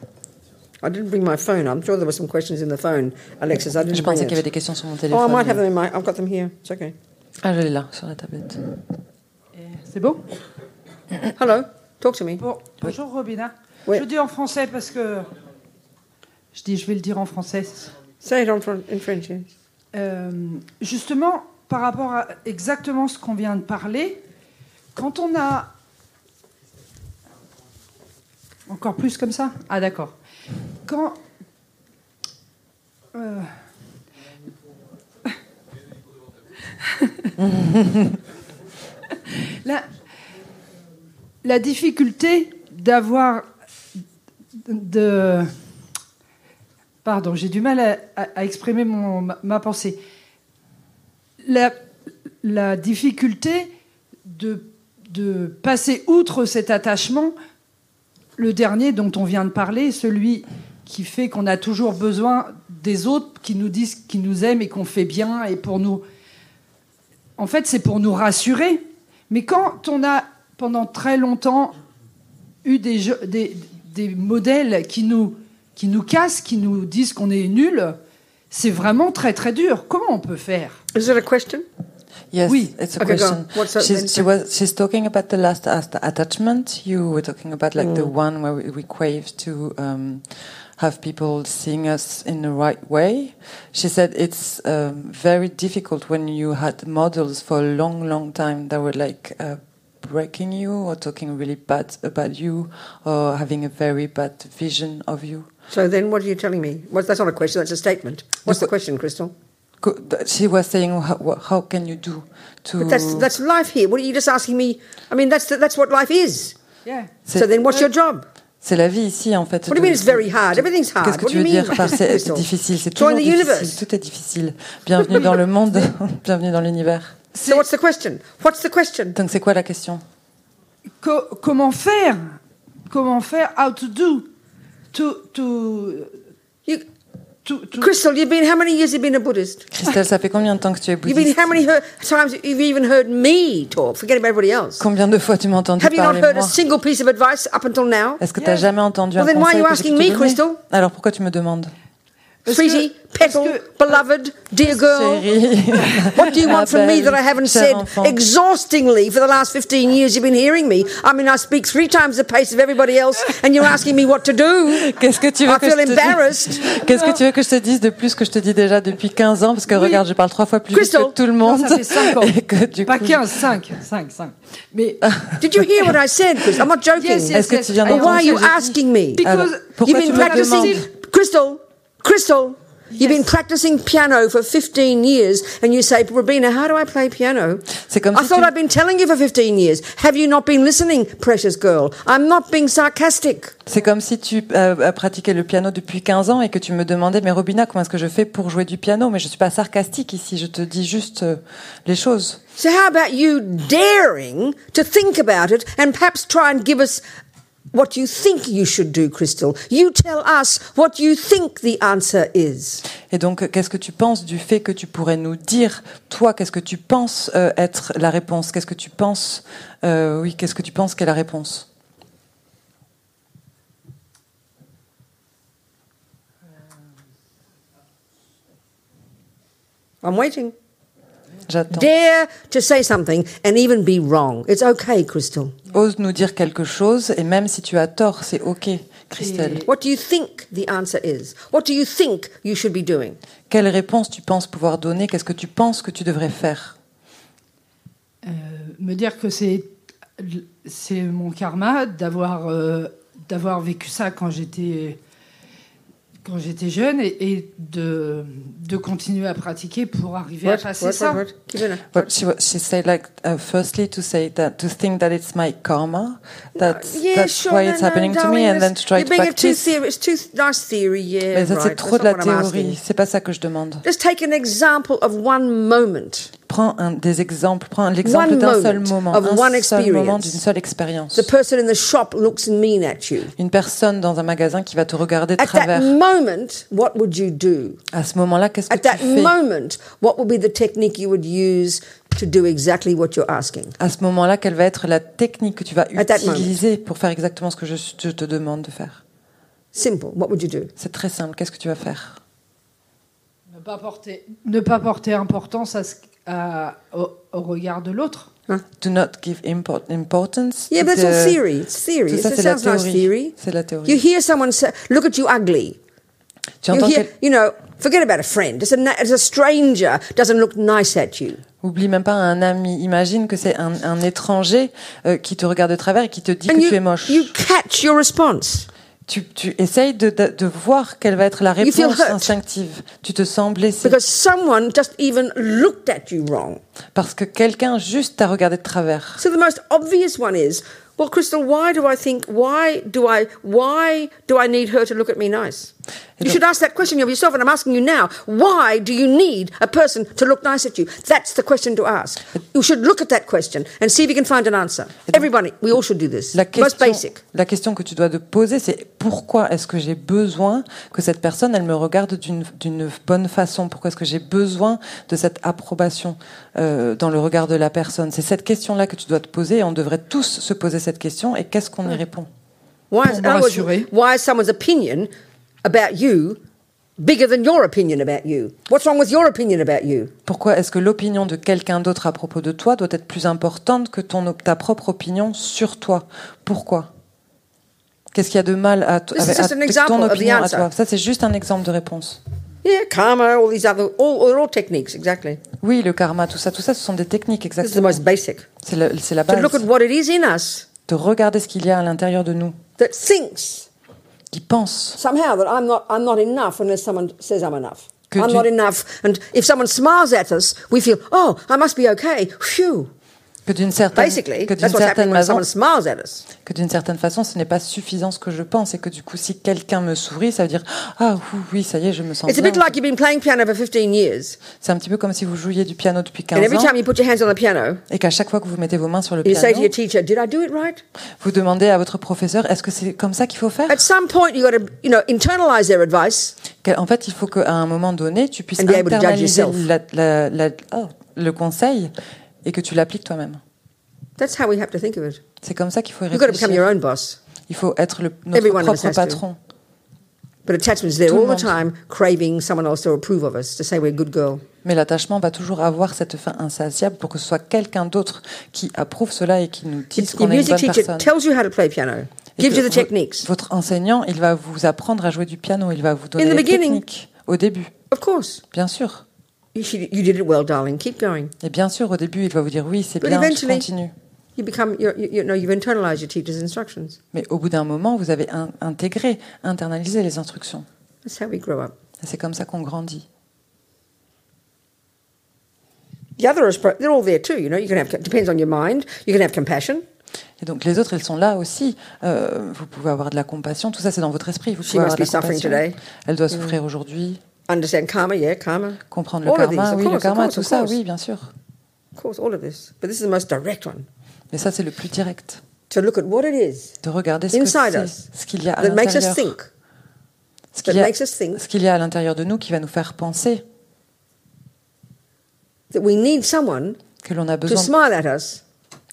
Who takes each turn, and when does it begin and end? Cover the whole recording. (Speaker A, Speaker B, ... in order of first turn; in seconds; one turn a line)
Speaker A: 0.8-4.4
Speaker B: 3.8-5.6
Speaker A: 5.1-6.9
Speaker B: 7.4-8.6
Speaker C: 9.6-10.2
Speaker A: 11.4-12.4
Speaker C: 12.4-15.3
Speaker C: 16.5-17.9
Speaker A: 18.2-19.5
Speaker C: 19.9-24.2
Speaker C: 24.9-25.7
Speaker C: 28.7-30.1
Speaker C: 30.9-31.2
Speaker C: 33.1-33.5
Speaker C: 36.8-37.3
Speaker B: 37.4-38.2
Speaker C: 39.3-39.9
Speaker C: 41.4-43.5
Speaker C: 44.6-45.5
Speaker C: 47.0-50.0
Speaker C: 51.4-51.9
Speaker C: 52.4-53.7
Speaker C: 54.2-57.3
Speaker C: 58.4-66.0
Speaker C: 67.4-71.8
Speaker C: 72.6-78.0
Speaker C: 78.5-80.8
Speaker A: 80.9-81.6
Speaker B: 82.3-90.2
Speaker C: 82.5-82.7
Speaker A: 83.0-84.3
Speaker A: 87.8-88.1
Speaker B: 90.8-105.5
Speaker A: 105.7-109.3
Speaker B: 109.8-113.3
Speaker A: 112.8-116.5
Speaker C: 116.8-117.2
Speaker B: 117.2-117.5
Speaker A: 117.3-118.2
Speaker B: 118.6-127.2
Speaker A: 119.7-123.8
Speaker C: 125.1-125.9
Speaker A: 127.3-129.2
Speaker C: 127.4-127.6
Speaker B: 129.1-130.0
Speaker C: 131.0-132.4
Speaker C: 132.9-134.3
Speaker C: 134.9-136.1
Speaker C: 137.4-137.9
Speaker A: 137.8-139.7
Speaker B: 139.7-141.5
Speaker A: 141.0-144.8
Speaker B: 144.8-146.6
Speaker A: 145.8-148.2
Speaker B: 148.2-151.7
Speaker C: 148.4-148.6
Speaker A: 149.2-150.6
Speaker C: 152.4-153.7
Speaker A: 152.4-155.2
Speaker B: 154.6-158.2
Speaker A: 156.1-164.9
Speaker B: 164.7-173.5
Speaker A: 165.4-166.7
Speaker C: 169.7-170.0
Speaker A: 170.7-171.2
Speaker C: 171.4-172.3
Speaker C: 172.8-175.0
Speaker B: 175.0-175.6
Speaker A: 175.4-179.2
Speaker C: 176.9-178.7
Speaker B: 177.3-180.8
Speaker C: 179.2-180.8
Speaker A: 179.8-193.5
Speaker C: 182.9-183.2
Speaker B: 187.8-188.5
Speaker B: 193.7-202.4
Speaker A: 202.6-207.0
Speaker A: 207.7-212.8
Speaker B: 213.1-221.7
Speaker A: 230.0-230.5
Speaker B: 231.5-231.9
Speaker A: 231.7-235.5
Speaker B: 235.7-239.7
Speaker C: 239.2-239.7
Speaker A: 239.6-243.2
Speaker B: 243.5-246.8
Speaker C: 248.2-255.0
Speaker C: 256.2-261.2
Speaker A: 260.4-262.1
Speaker B: 261.9-269.8
Speaker A: 266.6-272.8
Speaker B: 271.3-273.8
Speaker A: 273.8-276.3
Speaker B: 276.5-281.3
Speaker A: 278.0-280.4
Speaker A: 281.1-283.3
Speaker B: 283.4-286.0
Speaker A: 285.4-287.8
Speaker B: 287.9-289.3
Speaker A: 288.7-293.7
Speaker B: 293.8-299.0
Speaker A: 295.9-296.6
Speaker A: 299.7-300.7
Speaker B: 300.8-302.2
Speaker C: 303.5-308.3
Speaker B: 308.8-311.4
Speaker A: 310.7-313.3
Speaker B: 312.1-314.0
Speaker A: 313.9-315.8
Speaker B: 316.6-317.1
Speaker A: 316.7-321.4
Speaker B: 321.6-327.3
Speaker A: 326.5-328.7
Speaker B: 329.1-334.0
Speaker A: 331.6-332.3
Speaker A: 333.8-336.6
Speaker B: 336.9-339.2
Speaker A: 339.2-357.2
Speaker B: 356.3-372.3
Speaker A: 372.9-375.1
Speaker C: 373.0-373.9
Speaker A: 375.6-376.4
Speaker A: 377.0-380.1
Speaker B: 380.2-386.9
Speaker B: 388.1-392.2
Speaker A: 389.1-390.7
Speaker A: 392.6-395.4
Speaker B: 395.6-398.0
Speaker A: 397.6-398.4
Speaker B: 398.6-399.6
Speaker A: 399.3-400.7
Speaker B: 400.9-402.6
Speaker A: 402.8-403.7
Speaker B: 404.3-405.0
Speaker A: 405.0-412.9
Speaker B: 408.1-408.5
Speaker B: 413.4-415.4
Speaker A: 413.9-416.3
Speaker B: 416.4-422.8
Speaker A: 422.3-424.4
Speaker B: 424.6-426.7
Speaker A: 426.3-427.8
Speaker B: 427.9-429.7
Speaker A: 429.2-430.8
Speaker B: 431.2-433.8
Speaker A: 433.7-436.4
Speaker B: 436.6-441.9
Speaker A: 438.6-439.7
Speaker B: 442.4-443.4
Speaker A: 444.2-445.2
Speaker B: 445.4-446.7
Speaker A: 446.1-447.2
Speaker B: 447.5-449.4
Speaker A: 448.3-449.2
Speaker A: 450.4-454.4
Speaker B: 451.1-451.6
Speaker B: 454.6-461.1
Speaker A: 459.9-463.3
Speaker B: 462.4-467.7
Speaker A: 466.2-466.8
Speaker A: 467.9-468.4
Speaker B: 468.5-469.0
Speaker A: 469.5-471.3
Speaker B: 471.4-473.9
Speaker A: 473.0-473.7
Speaker A: 474.4-477.0
Speaker B: 477.1-480.6
Speaker A: 481.0-481.7
Speaker B: 482.0-483.1
Speaker A: 486.2-489.8
Speaker B: 490.4-497.2
Speaker A: 494.6-495.8
Speaker A: 497.5-500.8
Speaker B: 498.9-501.3
Speaker A: 501.9-503.9
Speaker B: 504.3-505.4
Speaker A: 505.7-506.7
Speaker B: 506.8-509.3
Speaker A: 507.3-508.1
Speaker A: 508.6-509.5
Speaker B: 510.5-513.4
Speaker A: 510.6-511.4
Speaker A: 515.7-516.8
Speaker B: 517.0-517.7
Speaker A: 517.5-518.4